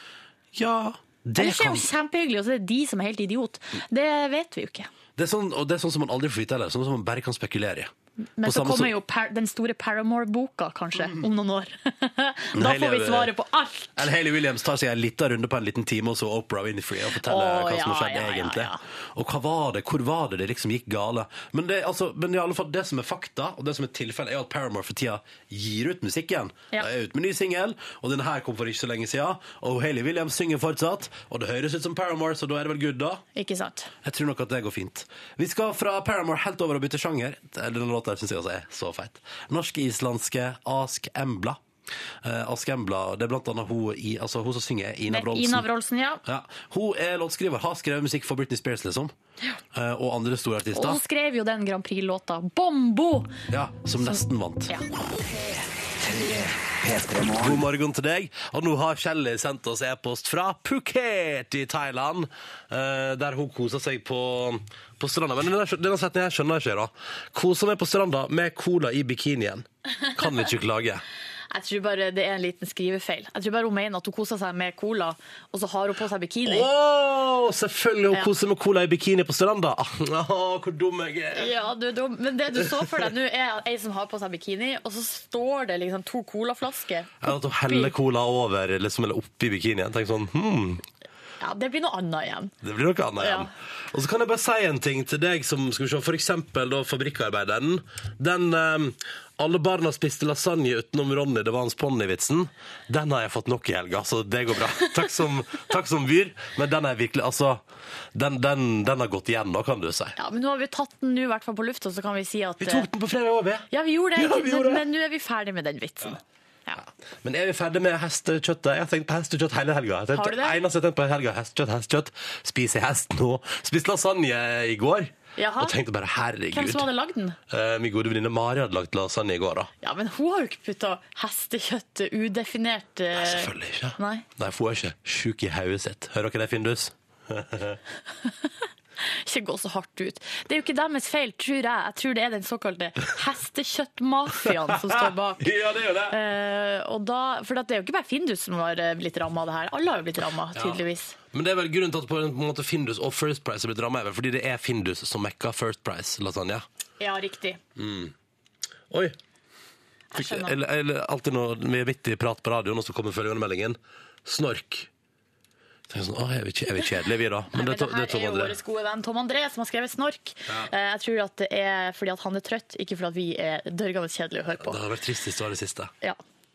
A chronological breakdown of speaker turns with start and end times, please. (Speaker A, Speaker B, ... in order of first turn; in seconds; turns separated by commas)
Speaker A: 0.5-1.9, Speaker B: 1.4-4.9, Speaker A: 5.2-7.9, Speaker B: 8.4-14.1, Speaker A: 8.4-8.9, Speaker A: 12.5-13.3, Speaker A: 14.0-33.2, Speaker B: 17.2-18.8, Speaker B: 33.4-33.9, Speaker A: 34.0-41.6, Speaker A: 42.2-45.7, Speaker B: 45.1-46.2, Speaker A: 46.2-49.1, Speaker A: 49.7-51.0, Speaker B: 50.8-53.3, Speaker A: 53.5-54.7, Speaker A: 56.1-56.4, Speaker A: 57.0-71.0, Speaker B: 71.5-76.7, Speaker A: 76.5-81.5, Speaker B: 81.3-88.0, Speaker A: 87.2-90.8, Speaker B: 91.4-92.5, Speaker A: 92.6-107.6, Speaker B: 93.2-93.5, Speaker A: 108.1-110.2, Speaker B: 110.2-112.9, Speaker A: 112.6-114.8, Speaker B: 113.7-116.8, Speaker A: 116.8-126.9, Speaker B: 120.1-120.6, Speaker B: 125.4-125.8, Speaker B: 126.5-127.4, Speaker A: 127.5-129.7, Speaker B: 129.8-134.2, Speaker A: 133.1-137.8, Speaker B: 139.0-145.5, Speaker A: 144.7-146.2, Speaker B: 146.1-151.2, Speaker A: 150.5-150.8, Speaker A: 151.3-156.7, Speaker B: 157.0-157.6, Speaker A: 157.8-158.1, Speaker A: 158.9-159.2, Speaker B: 160.1-160.5, Speaker A: 160.2-164.9, Speaker A: 165.9-168.6, Speaker B: 167.5-174.8, Speaker A: 174.6-175.9